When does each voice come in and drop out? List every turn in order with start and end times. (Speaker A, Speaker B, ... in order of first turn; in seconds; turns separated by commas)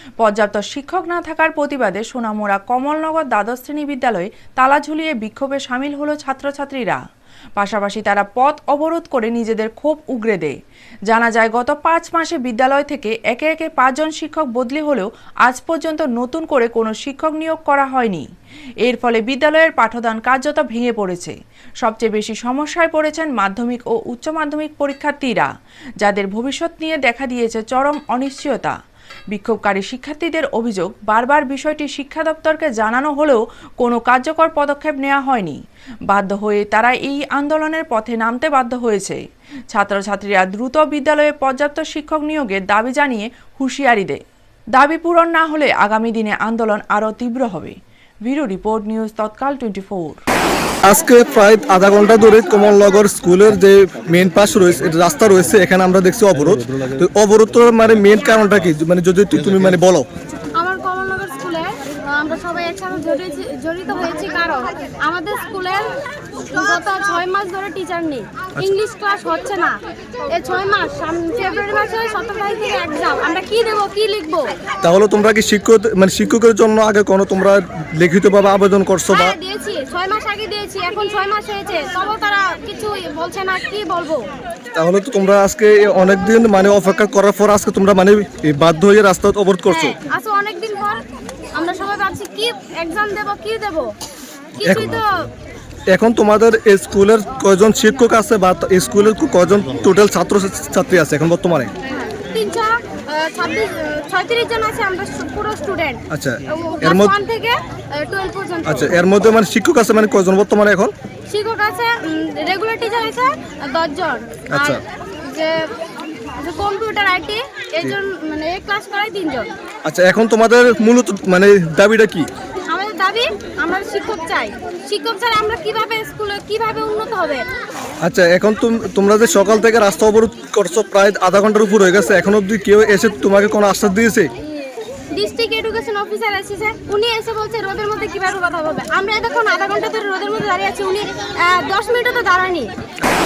Speaker A: 0.2-7.0, Speaker A: 7.6-10.6, Speaker A: 11.1-18.3, Speaker A: 18.8-25.5, Speaker A: 26.0-28.8, Speaker A: 29.3-39.2, Speaker A: 39.7-44.2, Speaker A: 44.8-50.2, Speaker B: 50.8-60.1, Speaker C: 60.5-66.0, Speaker C: 66.5-69.8, Speaker C: 70.3-74.5, Speaker B: 74.8-79.3, Speaker C: 79.1-84.2, Speaker B: 84.8-90.0, Speaker C: 89.7-91.0, Speaker C: 91.5-93.9, Speaker C: 94.6-95.3, Speaker B: 94.6-95.0, Speaker B: 95.9-101.7, Speaker C: 102.0-109.0, Speaker B: 106.1-107.1, Speaker B: 108.6-110.9, Speaker C: 111.3-115.8, Speaker B: 114.5-114.8, Speaker C: 116.4-119.5, Speaker B: 119.8-122.3, Speaker C: 122.7-127.5, Speaker B: 128.0-134.3, Speaker C: 135.1-142.7